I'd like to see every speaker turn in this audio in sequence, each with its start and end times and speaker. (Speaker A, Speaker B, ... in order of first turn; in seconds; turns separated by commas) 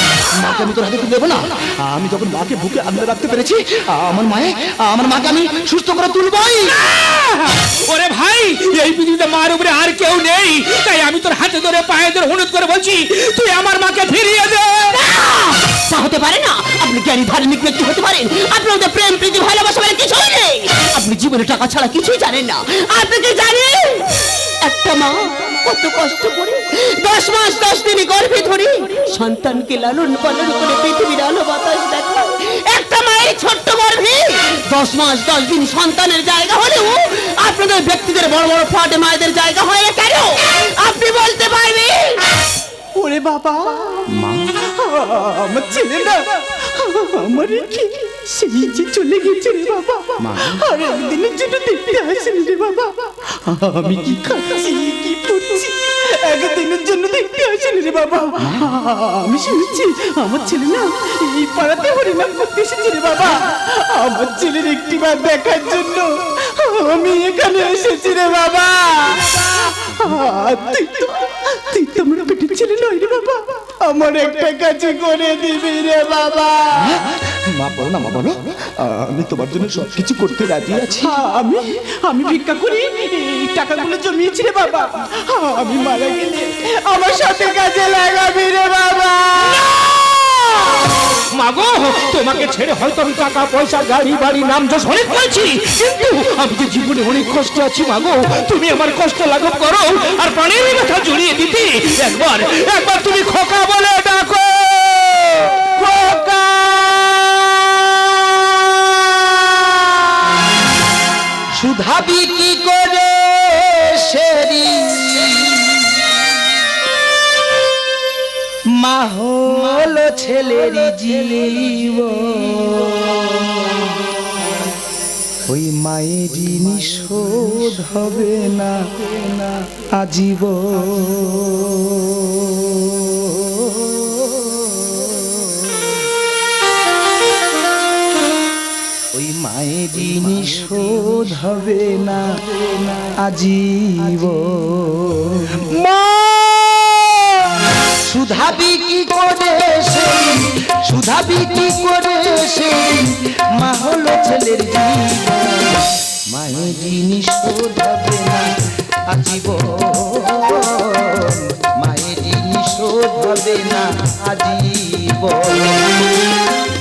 Speaker A: 0.3-6.7, Speaker B: 6.7-14.9, Speaker C: 14.9-42.2, Speaker D: 43.0-44.1, Speaker A: 44.1-44.5, Speaker D: 44.8-77.0, Speaker A: 50.2-50.6, Speaker A: 58.4-58.7, Speaker A: 76.8-81.2, Speaker D: 81.0-89.7, Speaker B: 89.6-90.4, Speaker B: 91.3-109.2, Speaker A: 111.6-116.1, Speaker A: 118.8-124.0, Speaker A: 125.5-135.9, Speaker A: 139.1-145.7, Speaker B: 145.8-147.1, Speaker A: 148.0-158.5, Speaker A: 159.1-166.1